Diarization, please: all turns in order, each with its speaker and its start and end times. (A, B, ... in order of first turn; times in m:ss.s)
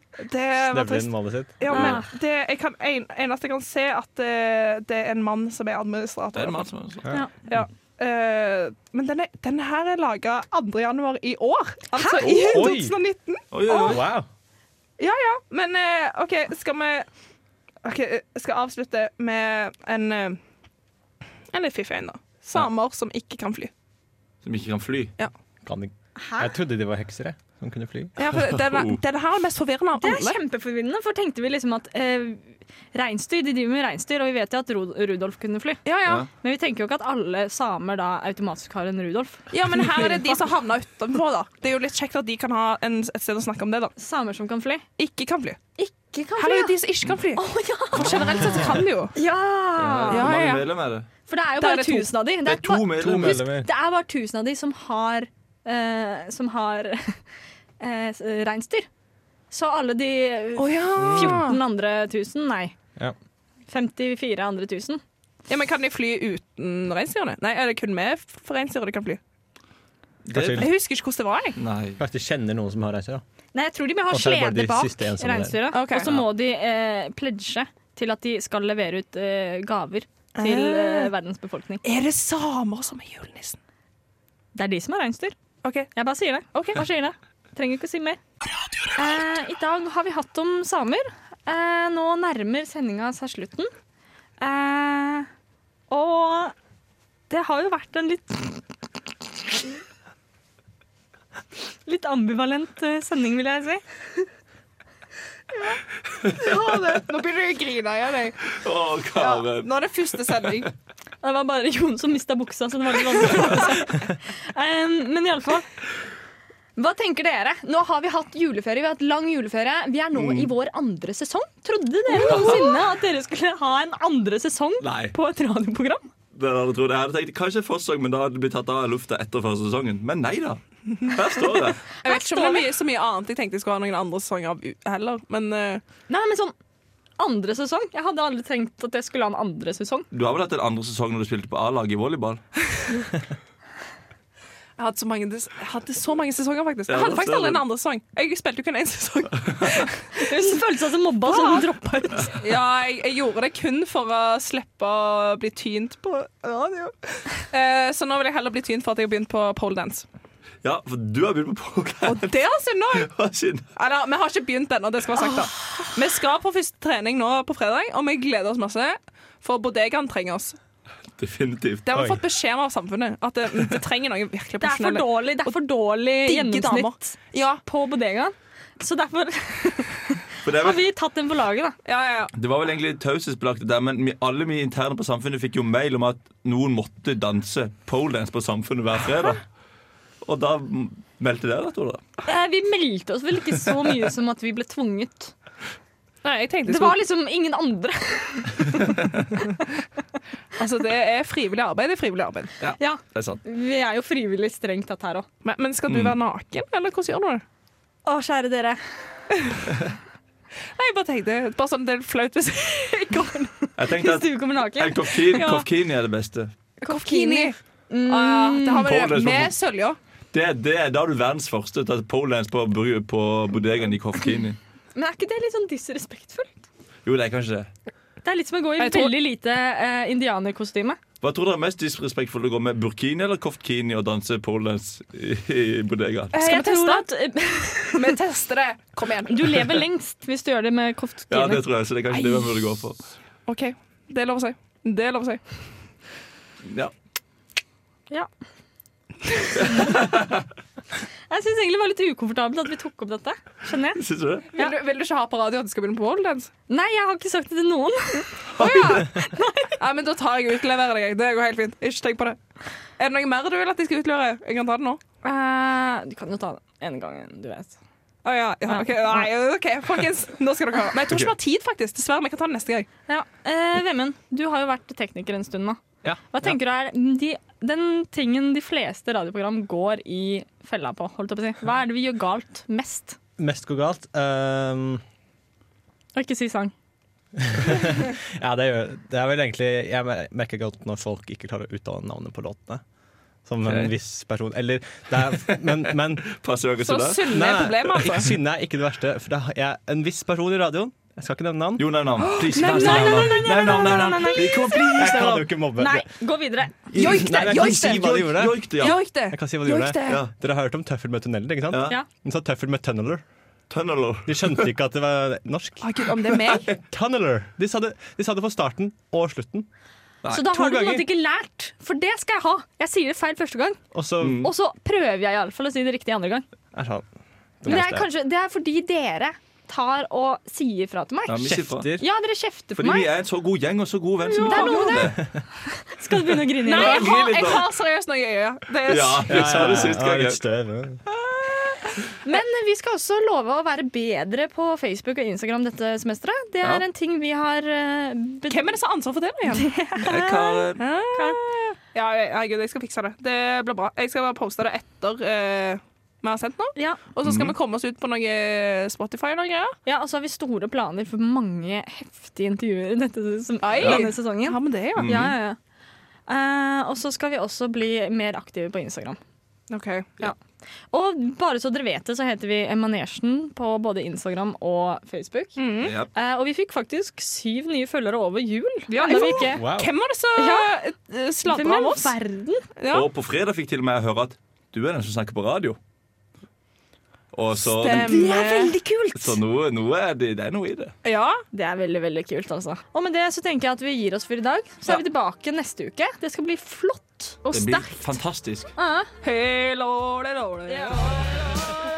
0:00.2-0:06.7 A
0:00.6-0:02.0 B
0:01.7-0:02.1 C
0:06.4-0:07.1 D
0:07.5-0:14.0 A
0:11.9-0:12.6 C
0:12.2-0:12.6 D
0:12.5-0:13.0 B
0:13.5-0:14.1 D
0:13.7-0:14.3 B
0:15.0-0:17.1 A
0:17.8-0:20.4 A
0:21.5-0:23.7 A
0:24.4-0:25.1 D
0:25.6-0:28.1 B
0:26.2-0:26.5 C
0:28.2-0:30.4 A
0:28.2-0:29.0 D
0:30.0-0:35.8 C
0:35.8-0:36.3 A
0:36.4-0:40.4 C
0:39.5-0:43.9 A
0:44.0-0:44.8 C
0:45.0-0:45.6 A
0:45.8-0:46.7 C
0:46.4-0:49.2 A
0:47.4-0:48.6 C
0:49.1-0:50.3 C
0:49.8-0:51.1 D
0:50.1-0:50.7 A
0:51.3-0:57.2 C
0:51.6-0:52.1 A
0:52.4-0:53.5 D
0:53.0-0:53.7 B
0:57.8-0:58.9 C
0:59.5-1:02.7 C
1:00.6-1:01.6 A
1:01.0-1:01.4 B
1:03.7-1:05.0 C
1:05.5-1:09.2 A
1:10.2-1:10.7 D
1:10.3-1:10.7 B
1:10.6-1:11.6 A
1:11.6-1:12.0 D
1:12.0-1:13.2 B
1:13.5-1:21.8 C
1:14.1-1:15.6 B
1:15.7-1:16.1 A
1:20.4-1:21.1 A
1:21.8-1:23.6 A
1:24.5-1:25.4 C
1:25.6-1:25.9 A
1:25.9-1:28.2 C
1:26.5-1:26.8 A
1:28.9-1:33.7 C
1:34.4-1:35.3 C
1:35.9-1:36.5 C
1:37.3-1:38.6 C
1:41.9-1:44.3 C
1:46.2-1:46.7 D
1:46.4-1:48.6 A
1:48.5-1:50.7 D
1:49.2-1:50.7 A
1:51.2-1:55.7 C
1:56.8-2:06.1 C
2:00.1-2:00.5 D
2:04.8-2:05.2 D
2:06.3-2:11.8 D
2:11.0-2:15.8 A
2:12.0-2:12.7 C
2:16.1-2:16.6 C
2:17.2-2:20.1 C
2:20.1-2:22.4 D
2:24.8-2:30.4 A
2:26.9-2:27.6 D
2:30.1-2:32.3 C
2:31.3-2:31.7 A
2:32.3-2:40.0 A
2:40.6-2:42.3 D
2:42.1-2:43.1 A
2:42.9-2:43.6 D
2:43.8-2:50.6 A
2:51.2-2:52.1 D
2:51.9-2:55.6 A
2:54.6-3:01.8 C
2:56.2-2:57.6 A
3:00.4-3:00.8 D
3:01.8-3:02.3 A
3:02.3-3:09.4 D
3:10.2-3:12.0 D
3:12.2-3:15.3 C
3:16.2-3:17.0 A
3:16.6-3:19.0 C
3:20.6-3:22.5 A
3:22.6-3:23.4 D
3:22.8-3:25.3 C
3:25.4-3:27.4 A
3:25.9-3:26.2 D
3:28.1-3:28.8 C
3:30.8-3:33.1 A
3:32.8-3:35.6 C
3:33.8-3:36.5 D
3:35.4-3:35.6 A
3:36.8-3:38.9 C
3:36.8-3:37.6 A
3:38.1-3:40.0 A
3:38.8-3:39.6 D
3:40.3-3:44.6 D
3:44.9-3:46.6 C
3:47.1-3:47.7 D
3:48.2-3:51.0 C
3:48.8-3:49.1 A
3:51.2-3:56.3 D
3:56.3-3:57.1 A
3:56.3-3:58.2 C
3:57.9-3:59.6 A
3:59.2-4:01.6 C
4:01.3-4:03.0 D
4:02.1-4:02.6 A
4:03.5-4:05.4 A
4:06.6-4:06.9 D
4:09.5-4:10.2 C
4:09.6-4:10.4 D
4:11.3-4:14.0 C
4:14.0-4:14.5 D
4:14.5-4:16.5 A
4:16.7-4:19.8 C
4:18.6-4:19.2 A
4:19.8-4:22.4 A
4:23.0-4:25.0 A
4:25.2-4:27.8 C
4:28.2-4:32.9 A
4:28.7-4:29.3 C
4:33.1-4:43.2 C
4:36.0-4:36.6 B
4:43.4-4:45.0 B
4:46.1-4:46.7 C
4:47.4-4:52.8 B
4:53.4-4:56.3 B
4:53.6-4:53.9 D
4:55.4-4:57.4 D
4:56.8-4:58.3 A
4:57.3-5:02.0 B
5:01.8-5:05.6 D
5:02.4-5:04.4 A
5:02.5-5:05.2 C
5:04.9-5:06.1 B
5:05.8-5:07.0 C
5:06.9-5:13.2 B
5:06.9-5:08.0 A
5:07.3-5:09.0 D
5:08.7-5:10.2 A
5:11.7-5:12.0 D
5:13.7-5:14.7 D
5:14.2-5:16.1 B
5:15.8-5:16.7 A
5:16.5-5:16.8 D
5:16.9-5:19.7 B
5:20.3-5:23.8 C
5:20.3-5:21.1 B
5:23.9-5:24.5 B
5:24.2-5:24.5 D
5:24.4-5:26.4 C
5:26.7-5:27.1 B
5:27.6-5:28.1 B
5:27.6-5:33.1 C
5:31.3-5:31.9 D
5:31.4-5:32.1 B
5:32.8-5:35.2 D
5:34.3-5:35.3 C
5:34.3-5:35.0 A
5:35.8-5:37.1 C
5:36.6-5:40.0 A
5:36.6-5:37.7 D
5:38.9-5:40.4 D
5:39.3-5:41.0 B
5:41.4-5:41.8 A
5:42.2-5:48.7 C
5:48.5-5:49.7 A
5:49.5-5:51.4 C
5:50.0-5:50.8 D
5:50.8-5:59.7 A
5:56.8-5:57.0 C
5:57.2-5:57.6 D
5:59.9-6:05.6 C
6:03.6-6:05.1 A
6:05.0-6:05.3 D
6:06.3-6:09.2 C
6:09.7-6:10.1 A
6:10.9-6:19.7 C
6:15.6-6:16.0 A
6:15.8-6:16.1 D
6:18.9-6:22.1 A
6:19.4-6:19.9 B
6:20.4-6:20.7 C
6:21.4-6:22.6 C
6:22.8-6:23.1 A
6:22.9-6:25.8 D
6:27.3-6:28.4 D
6:27.6-6:28.7 A
6:27.8-6:29.4 C
6:29.1-6:30.9 D
6:31.0-6:31.4 A
6:31.5-6:37.4 C
6:37.4-6:38.0 A
6:37.5-6:38.7 D
6:38.8-6:39.1 C
6:39.2-6:41.3 A
6:40.7-6:41.0 C